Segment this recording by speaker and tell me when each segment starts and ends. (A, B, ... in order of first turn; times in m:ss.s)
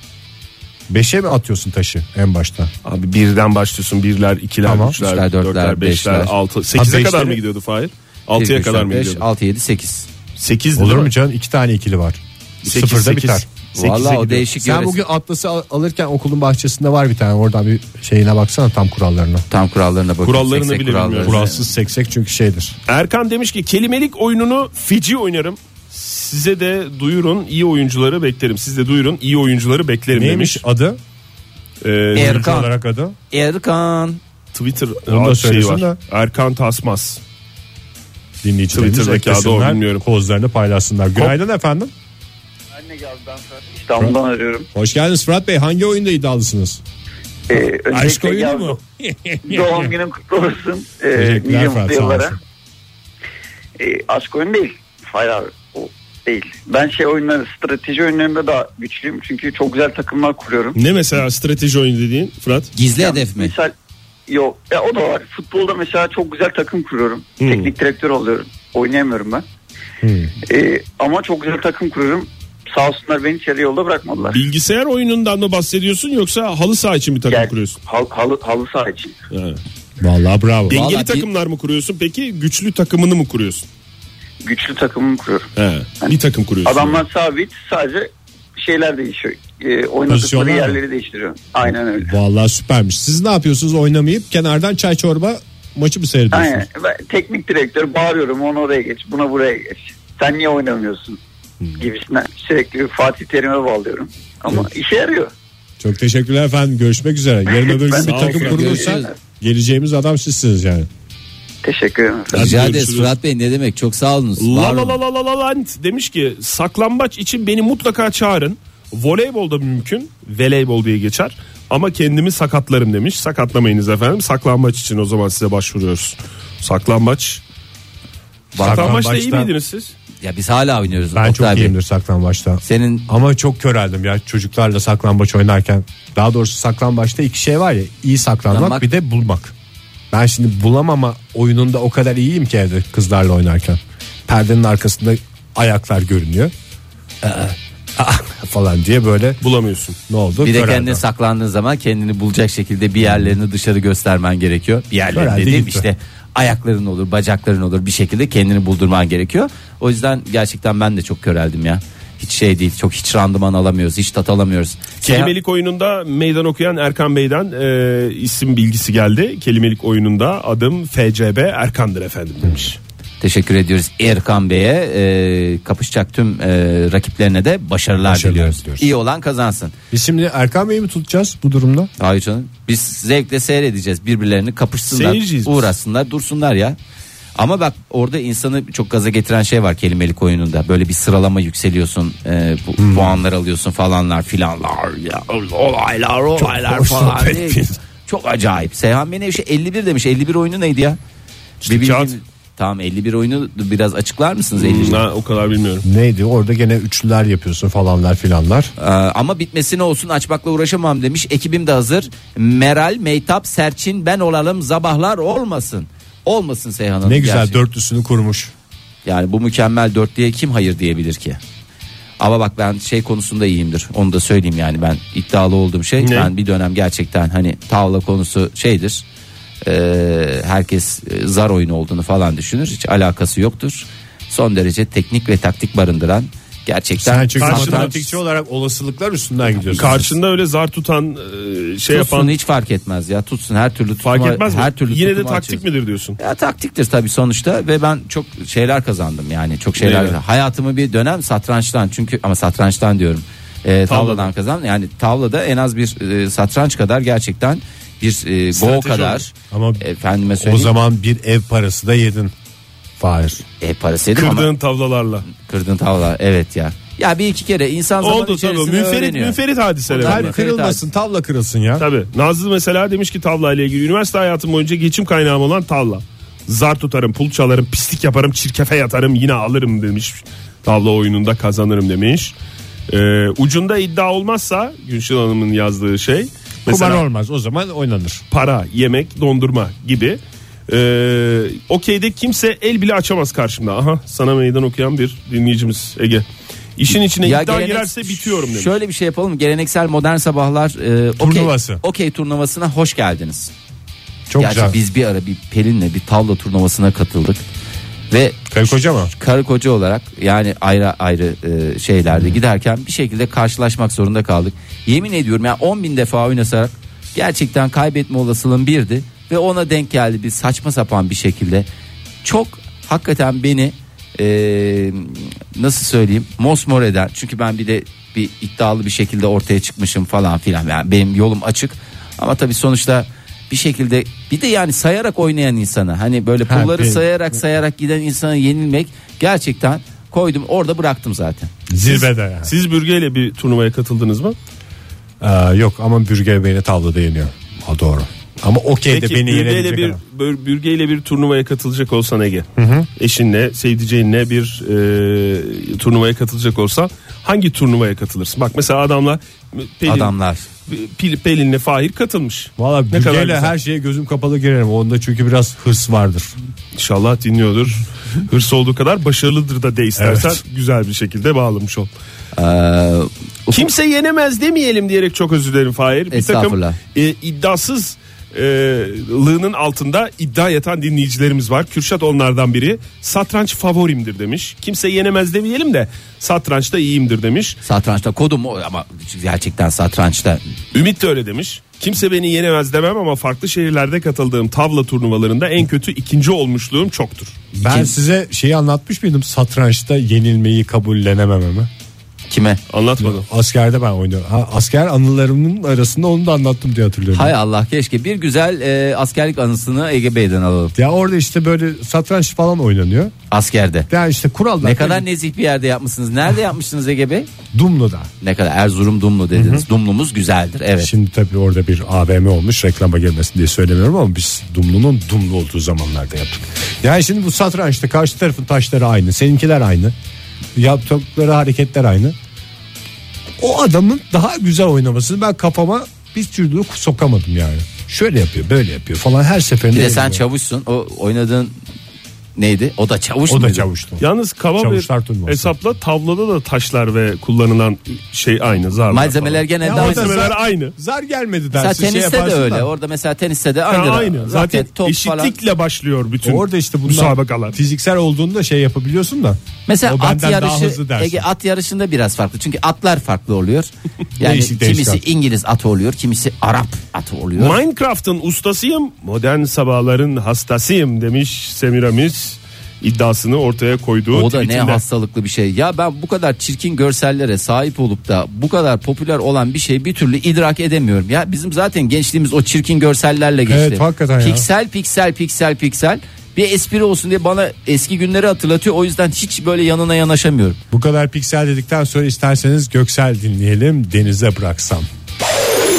0:00.9-0:02.7 A
0:02.8-0:09.2 B
0:04.6-0:05.0 A
0:05.0-0:06.3 C
0:06.8-0:07.4 A
0:08.4-0:10.1 C
0:10.4-0:11.1 B
0:10.8-0:19.4 A
0:12.6-0:14.3 B
0:13.7-0:15.0 C
0:19.5-0:21.6 C
0:20.2-0:21.4 B
0:21.2-0:22.8 A
0:22.9-0:30.6 B
0:30.1-0:31.0 A
0:31.8-0:32.5 B
0:32.2-0:33.2 A
0:32.2-0:32.7 C
0:33.3-0:34.2 C
0:34.5-0:37.2 B
0:35.1-0:36.0 A
0:38.4-0:41.9 A
0:38.7-0:40.0 B
0:42.7-0:44.7 D
0:44.7-0:46.8 A
0:47.5-0:48.8 D
0:47.9-0:49.9 A
0:49.4-0:52.4 D
0:51.1-0:52.4 A
0:53.8-1:00.8 D
1:00.8-1:02.7 B
1:02.8-1:03.5 C
1:03.0-1:03.7 D
1:04.3-1:09.4 D
1:07.4-1:07.7 B
1:10.0-1:10.3 A
1:10.5-1:14.4 D
1:14.3-1:17.8 B
1:17.3-1:19.1 D
1:19.3-1:19.6 B
1:20.0-1:20.8 A
1:20.7-1:23.6 B
1:20.7-1:21.3 C
1:24.4-1:25.5 D
1:25.6-1:27.0 B
1:26.0-1:32.1 D
1:30.1-1:30.8 A
1:32.0-1:36.7 A
1:36.3-1:41.2 D
1:41.8-1:45.3 D
1:45.8-1:50.9 A
1:47.6-1:49.0 D
1:48.0-1:48.9 B
1:48.3-1:49.1 C
1:51.6-1:52.4 D
1:52.3-1:53.1 B
1:52.3-1:55.0 C
1:54.4-2:07.4 B
2:08.5-2:09.0 C
2:08.6-2:09.5 A
2:08.6-2:09.9 B
2:10.2-2:11.8 C
2:11.1-2:19.5 A
2:12.6-2:13.1 C
2:18.5-2:18.9 C
2:20.1-2:26.5 A
2:27.2-2:29.4 A
2:29.4-2:30.0 B
2:30.1-2:31.0 A
2:30.4-2:45.3 C
2:33.0-2:33.4 A
2:35.1-2:35.9 A
2:45.0-2:52.8 B
2:53.2-2:59.7 C
2:58.0-2:58.9 A
2:59.9-3:01.9 A
3:02.0-3:06.8 C
3:04.9-3:05.7 B
3:07.4-3:21.0 C
3:12.8-3:13.2 A
3:16.4-3:17.8 A
3:21.6-3:22.2 B
3:21.6-3:25.0 C
3:24.6-3:25.8 B
3:25.8-3:28.7 A
3:28.8-3:37.6 C
3:37.0-3:38.5 A
3:39.0-3:41.4 C
3:42.2-3:49.0 C
3:46.0-3:46.3 B
3:49.6-3:58.0 C
3:57.0-4:00.1 A
3:57.4-3:58.0 B
3:59.7-4:00.0 C
3:59.8-4:02.3 B
4:01.9-4:05.6 C
4:04.0-4:06.2 B
4:06.2-4:20.7 C
4:09.8-4:10.2 B
4:13.9-4:14.3 B
4:18.5-4:19.2 B
4:19.5-4:19.8 A
4:20.4-4:22.3 A
4:23.0-4:23.4 A
4:23.6-4:24.5 C
4:24.2-4:25.3 B
4:25.3-4:29.4 C
4:28.0-4:30.4 B
4:29.9-4:30.8 C
4:30.0-4:31.9 A
4:31.8-4:42.3 B
4:42.9-4:47.0 B
4:46.7-4:48.2 A
4:48.3-4:56.2 B
4:56.8-4:58.8 B
4:57.2-5:03.5 C
5:01.2-5:01.8 A
5:04.3-5:04.8 A
5:04.4-5:07.4 C
5:08.1-5:21.7 C
5:08.5-5:09.1 A
5:22.2-5:41.5 C
5:36.5-5:37.0 A
5:41.7-5:42.5 A
5:41.9-5:44.4 B
5:45.2-5:50.0 A
5:48.9-6:00.1 B
5:52.6-5:52.9 A
5:59.8-6:00.5 C
6:00.7-6:03.5 B
6:02.6-6:06.3 A
6:06.8-6:11.9 B
6:10.0-6:10.4 A
6:12.4-6:13.7 C
6:13.5-6:27.6 B
6:16.1-6:16.8 C
6:27.6-6:30.4 C
6:30.7-6:37.4 B
6:37.6-6:41.7 A
6:37.6-6:38.0 C
6:42.3-6:42.6 C
6:42.7-6:43.3 B
6:43.0-6:47.3 A
6:47.1-6:50.7 C
6:50.8-6:53.1 A
6:53.3-6:53.9 C
6:53.9-6:55.1 A
6:54.6-6:57.3 C
6:57.5-6:58.1 A
6:58.2-7:00.9 C
6:59.3-6:59.7 A
7:00.8-7:10.0 A
7:10.6-7:12.2 A
7:13.4-7:20.2 A
7:19.7-7:21.6 C
7:22.4-7:23.7 C
7:23.3-7:24.1 A
7:24.0-7:30.8 B
7:24.6-7:25.5 A
7:28.9-7:30.2 C
7:29.6-7:32.7 A
7:31.5-7:35.3 C
7:33.7-7:37.6 B
7:36.2-7:41.3 A
7:39.7-7:47.6 C
7:44.2-7:45.0 A
7:47.4-7:54.8 B
7:54.1-8:10.6 C
8:03.5-8:04.5 A
8:10.7-8:14.9 A